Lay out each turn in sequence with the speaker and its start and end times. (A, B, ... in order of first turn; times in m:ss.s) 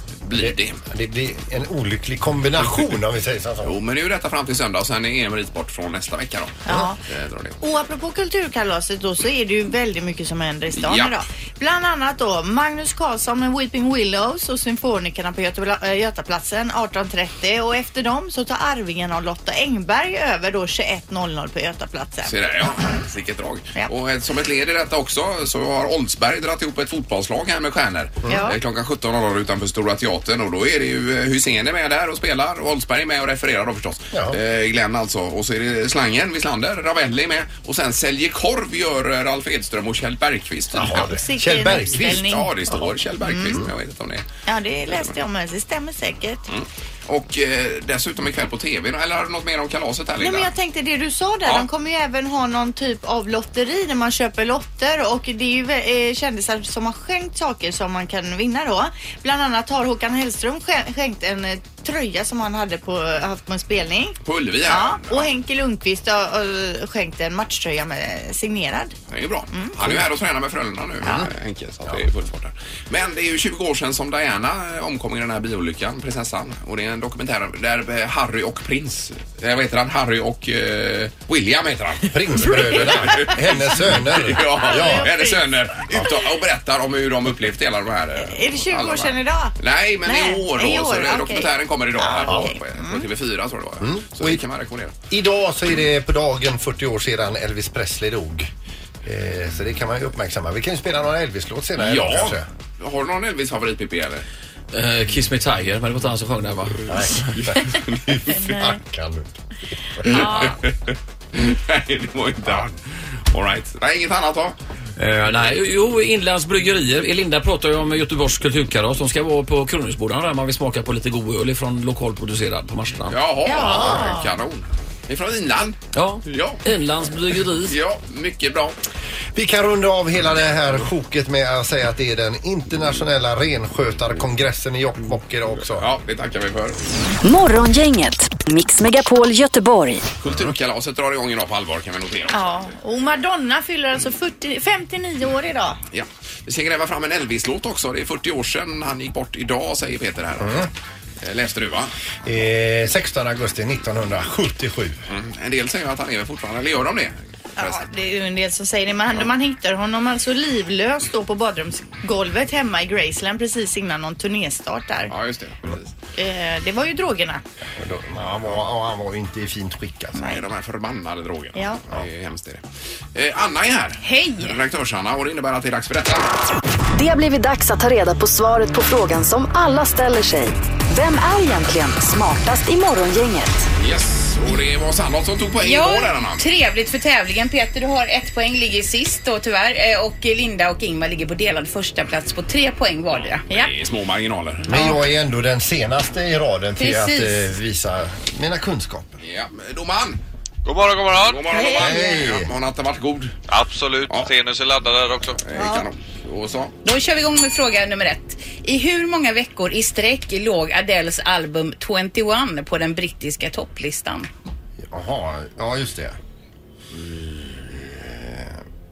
0:00.2-0:00.8 A
0:00.3-0:03.8 B
0:03.6-0:07.6 A
0:06.6-0:07.0 C
0:07.6-0:22.4 C
0:10.7-0:11.1 A
0:22.2-0:41.1 A
0:28.3-0:28.6 C
0:34.1-0:34.4 B
0:40.7-0:42.2 B
0:40.7-0:42.6 C
0:41.8-0:44.2 A
0:43.2-0:43.6 C
0:44.4-0:46.4 C
0:44.9-0:45.1 A
0:46.5-0:50.5 A
0:50.2-1:08.9 C
1:04.2-1:05.3 A
1:09.1-1:34.9 A
1:09.5-1:10.0 C
1:22.1-1:25.1 B
1:22.6-1:23.4 C
1:24.4-1:25.4 C
1:28.2-1:29.5 C
1:30.0-1:33.0 C
1:32.2-1:32.5 B
1:33.8-1:34.4 B
1:35.1-1:38.5 B
1:39.0-1:42.5 B
1:41.8-1:44.2 A
1:44.7-1:46.8 D
1:46.9-1:49.3 B
1:47.3-1:48.4 A
1:48.4-1:48.7 C
1:50.0-1:52.8 A
1:50.0-1:50.6 C
1:53.3-1:54.5 A
1:55.0-2:03.2 D
2:03.1-2:06.6 A
2:03.4-2:04.3 C
2:03.6-2:03.9 B
2:05.9-2:07.8 D
2:07.6-2:08.8 A
2:09.3-2:15.9 B
2:15.8-2:16.8 A
2:17.2-2:20.0 E
2:20.2-2:22.7 A
2:22.3-2:25.8 C
2:25.9-2:31.9 A
2:30.4-2:30.7 B
2:32.2-2:35.0 B
2:35.1-2:37.8 A
2:37.6-2:45.1 C
2:45.1-2:45.9 A
2:46.1-2:47.4 C
2:47.8-2:50.3 B
2:50.2-2:50.4 C
2:50.2-2:52.6 A
2:51.6-2:51.8 C
2:53.1-2:56.3 A
2:54.0-2:54.6 F
2:56.9-3:03.6 E
3:03.8-3:06.4 A
3:05.6-3:13.7 F
3:13.2-3:14.7 A
3:14.6-3:19.2 B
3:16.8-3:17.4 F
3:19.2-3:20.2 A
3:20.6-3:21.5 G
3:21.1-3:23.3 A
3:21.5-3:22.2 C
3:21.7-3:22.5 B
3:23.5-3:25.4 G
3:25.4-3:26.7 A
3:25.5-3:25.9 C
3:26.8-3:34.3 F
3:34.8-3:36.2 B
3:36.9-3:38.6 B